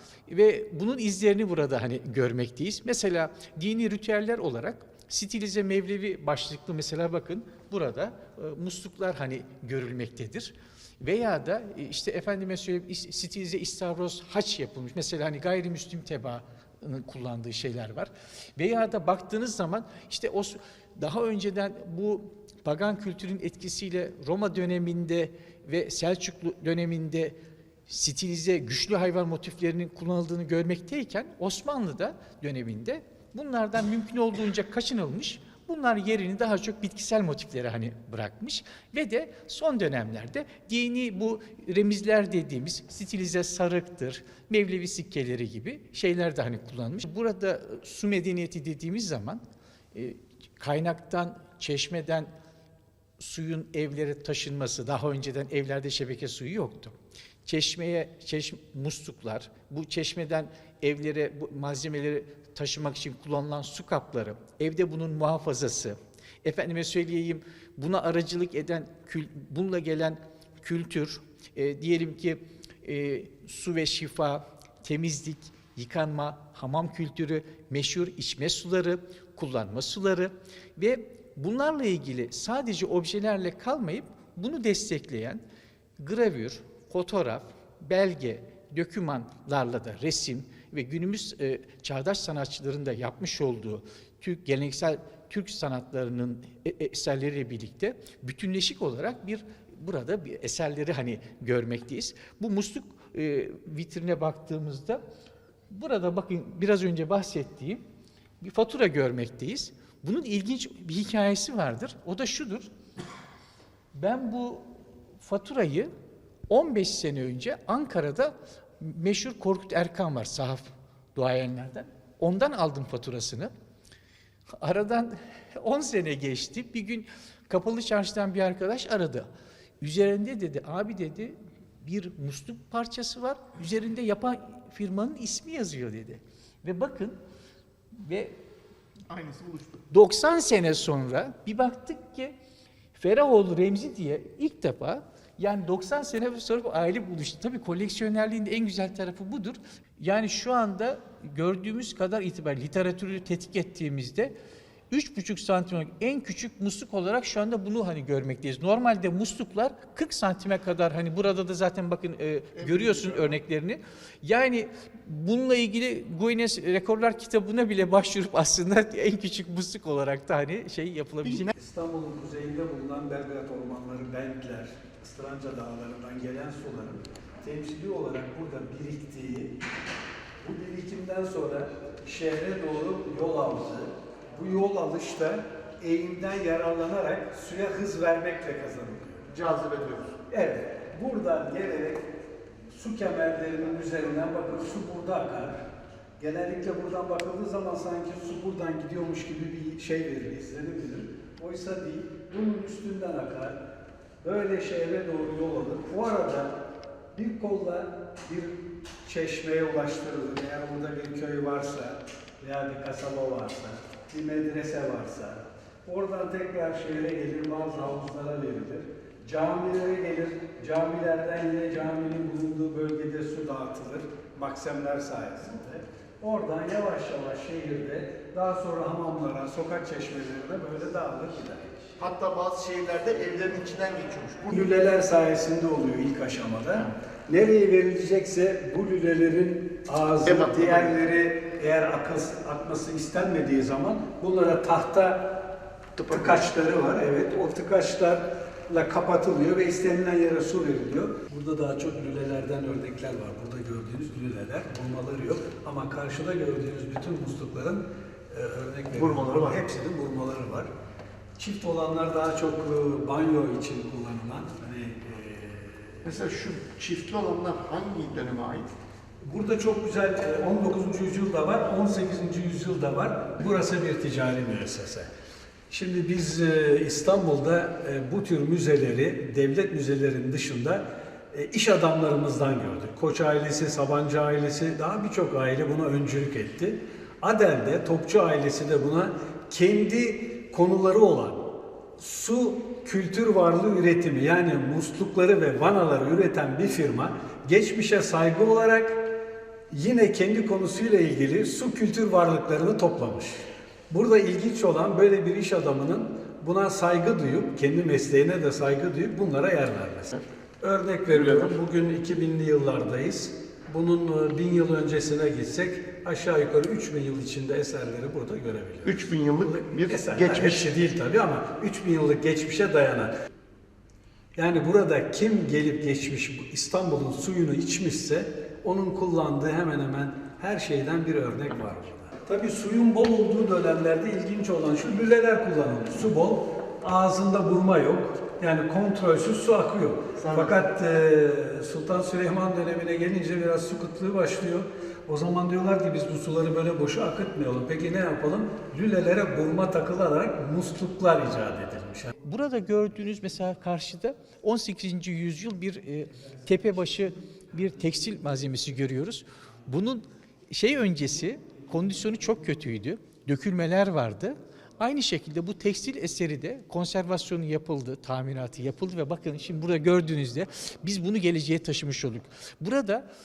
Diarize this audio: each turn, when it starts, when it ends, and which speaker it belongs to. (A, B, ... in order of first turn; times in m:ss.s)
0:00.3-0:49.4 A
0:49.9-0:52.3 A
0:53.2-1:25.4 A
1:26.0-1:45.0 A
1:45.7-1:47.8 A
1:48.4-1:52.7 A
1:53.9-1:55.9 A
1:56.5-2:03.5 A
2:04.6-2:09.3 A
2:09.8-2:17.2 A
2:18.0-2:18.4 A
2:19.1-2:19.8 B
2:19.9-2:22.4 A
2:22.9-2:34.4 A
2:34.9-2:51.5 A
2:42.6-2:43.2 B
2:51.5-2:59.5 C
3:00.4-3:09.2 C
3:09.3-3:10.1 B
3:10.3-3:12.0 C
3:12.7-3:15.6 C
3:16.2-3:23.6 C
3:24.2-3:26.5 C
3:27.1-3:51.8 C
3:52.0-3:54.5 B
3:54.5-4:05.2 C
4:00.2-4:00.9 B
4:06.0-4:06.4 B
4:06.0-4:20.7 C
4:18.9-4:19.6 B
4:21.4-4:26.0 C
4:26.0-4:28.7 B
4:29.2-4:35.1 C
4:35.7-4:59.0 C
4:59.7-5:23.1 C
5:11.1-5:11.4 B
5:18.8-5:20.6 B
5:24.4-5:52.1 C
5:52.2-6:13.1 A